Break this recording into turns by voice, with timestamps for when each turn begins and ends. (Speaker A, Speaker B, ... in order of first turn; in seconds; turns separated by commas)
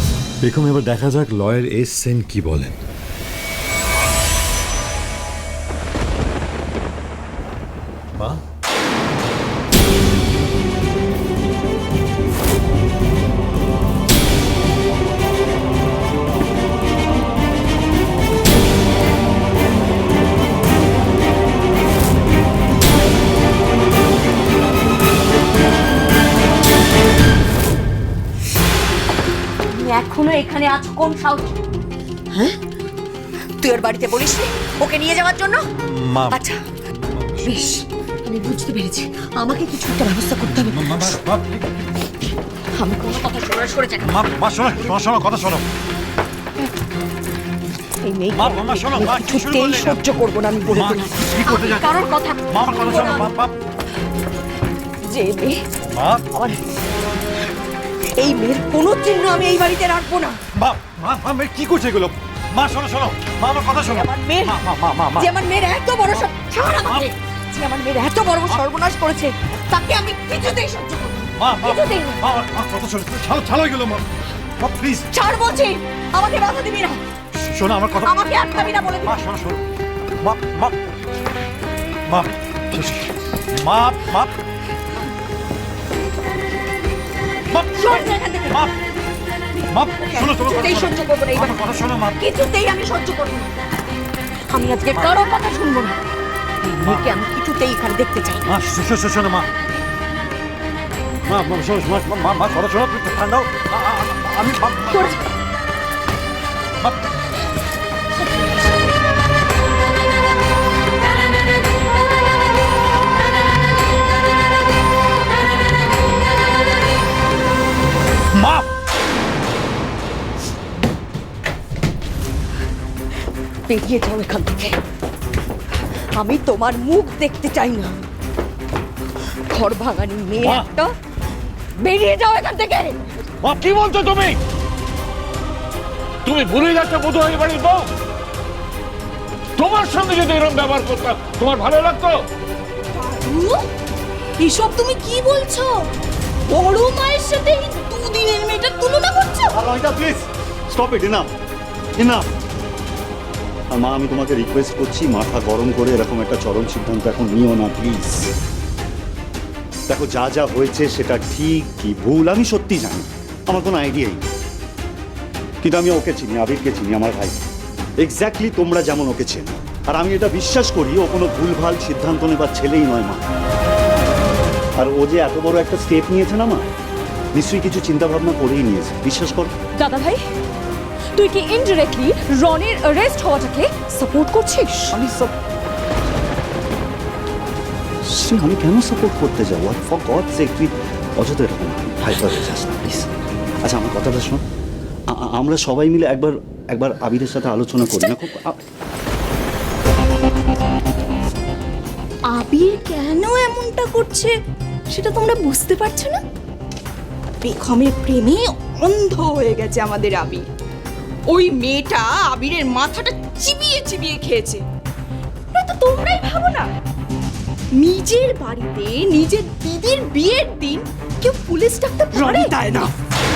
Speaker A: 0.4-2.8, Speaker B: 29.7-31.5, Speaker B: 32.3-32.6, Speaker B: 33.6-35.7, Speaker A: 35.8-36.4, Speaker B: 36.3-36.6, Speaker A: 37.0-37.5, Speaker B: 37.4-41.2, Speaker A: 40.5-41.7, Speaker B: 42.7-44.2, Speaker A: 44.0-45.6, Speaker B: 48.0-53.3, Speaker A: 48.3-50.0, Speaker A: 50.7-53.5, Speaker B: 55.0-55.6, Speaker A: 55.9-56.2, Speaker B: 56.3-56.6, Speaker B: 58.2-60.4, Speaker A: 60.5-65.3, Speaker B: 63.7-72.2, Speaker A: 66.8-67.1, Speaker A: 71.4-74.0, Speaker A: 74.6-75.1, Speaker B: 75.1-77.0, Speaker A: 77.3-79.7, Speaker B: 78.0-79.2, Speaker A: 80.2-80.8, Speaker A: 82.1-84.3, Speaker A: 87.5-88.7, Speaker B: 87.7-88.7, Speaker A: 89.7-92.2, Speaker B: 89.9-93.6, Speaker B: 94.5-96.0, Speaker A: 94.9-95.2, Speaker B: 96.6-98.5, Speaker A: 96.8-97.1, Speaker A: 98.4-99.5, Speaker A: 101.3-105.2, Speaker B: 104.9-105.2, Speaker A: 118.3-118.7, Speaker B: 123.7-124.8, Speaker B: 126.2-127.9, Speaker B: 129.5-130.9, Speaker A: 130.4-130.7, Speaker B: 131.8-132.9, Speaker C: 133.4-134.4, Speaker C: 136.2-137.9, Speaker C: 139.6-142.2, Speaker D: 142.9-143.7, Speaker D: 144.4-145.9, Speaker D: 146.5-149.5, Speaker E: 149.5-151.3, Speaker E: 152.0-152.3, Speaker E: 153.7-158.3, Speaker E: 159.9-164.2, Speaker E: 165.6-167.4, Speaker E: 168.0-173.2, Speaker E: 174.8-176.7, Speaker E: 177.3-179.5, Speaker B: 179.8-180.2, Speaker B: 181.2-184.9, Speaker E: 184.9-185.3, Speaker E: 188.0-194.4, Speaker E: 195.1-198.6, Speaker D: 202.2-204.3, Speaker D: 204.9-206.2, Speaker D: 207.4-210.4, Speaker D: 211.3-214.6, Speaker D: 215.5-216.7, Speaker D: 217.8-222.9, Speaker B: 222.1-222.8